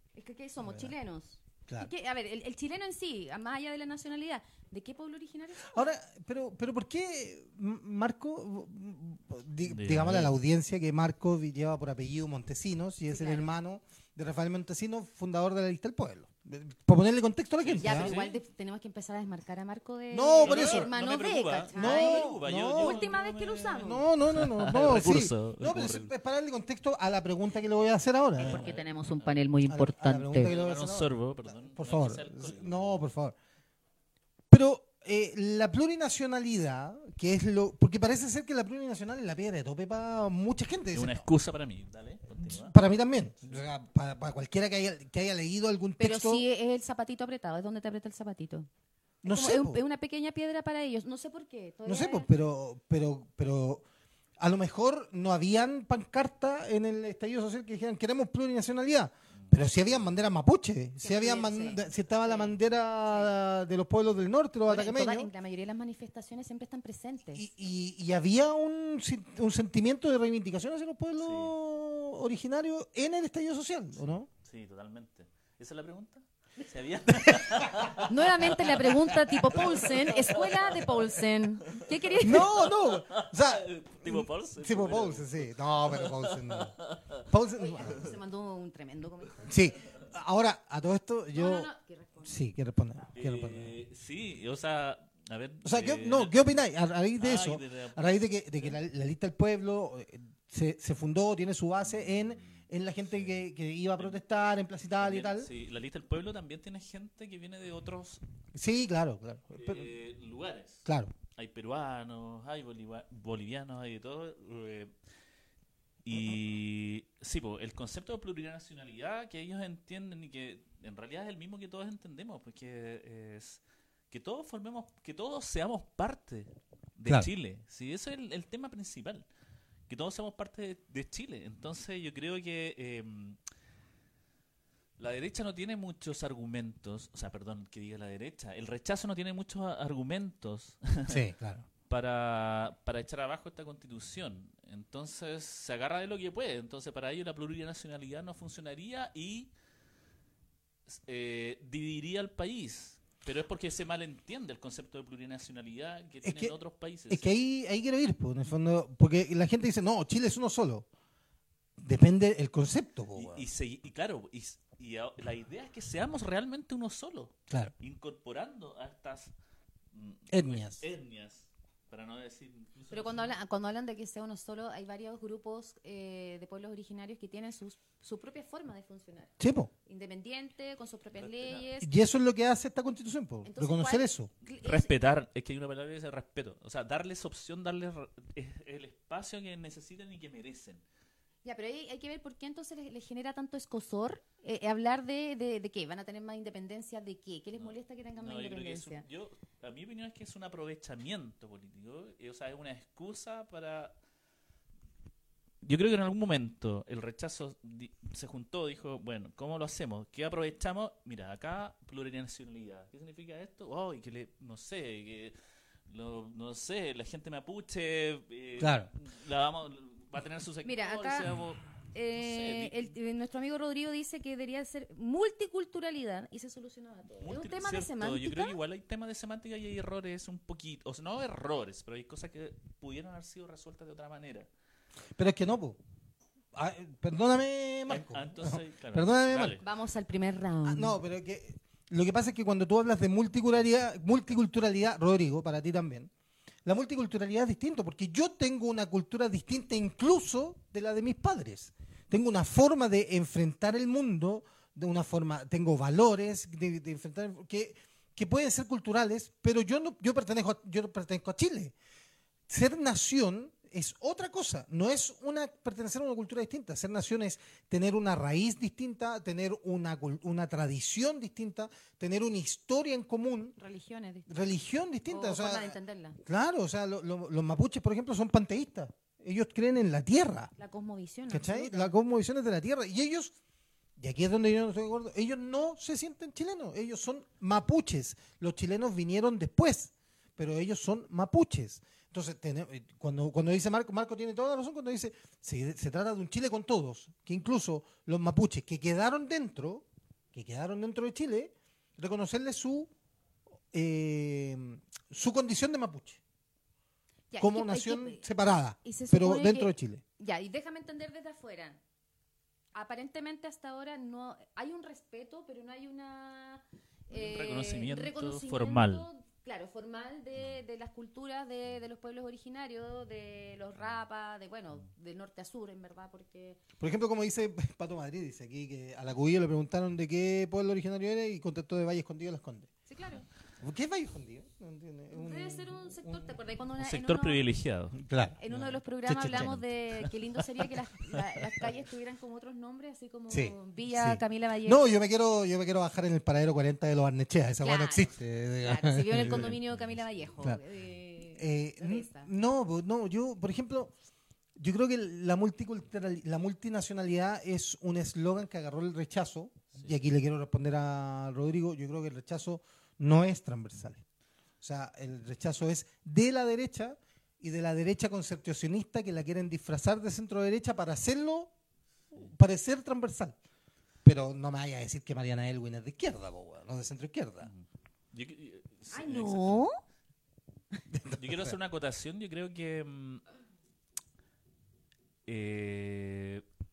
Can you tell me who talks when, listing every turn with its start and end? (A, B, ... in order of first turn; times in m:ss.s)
0:00.1-0:05.8 A
0:00.6-0:00.9 B
0:05.6-0:18.2 B
0:09.6-0:10.3 C
0:13.1-0:13.5 A
0:17.6-0:18.4 C
0:17.8-0:24.0 A
0:20.1-0:20.9 B
0:20.4-0:26.1 C
0:21.7-0:23.1 B
0:23.8-0:28.7 B
0:28.4-0:29.4 C
0:28.4-0:30.5 A
0:29.7-0:33.4 B
0:30.4-0:33.0 C
0:34.5-0:41.2 B
0:40.9-0:42.8 C
0:42.4-0:46.4 B
0:46.0-0:48.7 A
0:49.2-0:49.8 B
0:49.2-0:52.3 A
0:51.8-0:53.8 B
0:54.4-1:05.3 B
0:59.4-1:00.1 C
1:01.0-1:03.3 A
1:04.7-1:07.5 A
1:07.3-1:14.3 B
1:11.2-1:11.5 C
1:14.4-1:27.2 C
1:17.2-1:17.9 B
1:18.0-1:22.5 A
1:22.2-1:26.7 B
1:27.3-1:28.1 B
1:27.5-1:29.6 A
1:29.5-1:31.7 B
1:31.3-1:32.4 A
1:32.2-1:33.8 B
1:33.1-1:36.5 C
1:35.6-1:45.5 B
1:37.2-1:38.8 C
1:41.8-1:43.4 C
1:45.0-1:48.2 C
1:48.5-1:49.9 B
1:49.6-1:50.8 C
1:50.8-1:51.1 B
1:51.4-1:54.9 C
1:56.0-2:09.2 C
2:09.9-2:13.4 C
2:15.0-2:21.2 C
2:21.1-2:21.6 B
2:21.9-2:29.5 C
2:30.9-2:37.3 C
2:36.2-2:36.6 B
2:37.1-2:40.9 B
2:41.8-2:43.4 B
2:43.1-2:49.3 C
2:49.9-2:53.3 C
2:50.3-2:50.8 B
2:52.9-2:59.3 A
2:59.4-2:59.7 B
2:59.8-3:01.9 A
3:01.1-3:01.7 C
3:01.8-3:04.3 B
3:03.4-3:04.9 A
3:04.6-3:10.8 C
3:11.4-3:19.0 A
3:17.6-3:24.0 C
3:25.6-3:35.3 C
3:35.9-3:42.9 C
3:38.6-3:38.9 B
3:40.6-3:41.3 A
3:41.9-3:48.6 A
3:47.2-3:54.5 C
3:55.2-3:55.8 B
3:56.5-3:59.6 B
3:57.9-3:59.6 C
3:59.6-4:01.0 A
4:00.6-4:06.1 B
4:06.6-4:21.7 B
4:22.5-4:33.6 B
4:33.6-4:34.3 A
4:34.3-4:40.5 B
4:35.1-4:36.2 A
4:40.6-4:41.9 A
4:41.3-4:43.4 B
4:44.0-5:02.9 B
5:03.7-5:06.2 B
5:07.3-5:08.2 A
5:07.4-5:10.0 B
5:08.8-5:11.8 A
5:12.7-5:26.6 A
5:17.1-5:19.1 C
5:26.8-5:32.7 B
5:32.9-5:33.2 A
5:33.6-5:36.4 B
5:35.1-5:37.4 A
5:36.8-5:38.0 C
5:37.9-5:38.4 B
5:38.4-5:44.9 A
5:39.0-5:39.6 B
5:39.2-5:39.6 C
5:43.3-5:49.6 B
5:47.6-5:52.3 A
5:49.1-5:50.2 C
5:51.3-5:53.9 B
5:54.6-6:04.0 B
6:04.6-6:11.5 B
6:12.1-6:13.4 B
6:14.0-6:17.5 B
6:17.4-6:19.7 C
6:18.9-6:19.8 A
6:20.9-6:21.6 B
6:21.2-6:23.2 C
6:25.2-6:26.4 C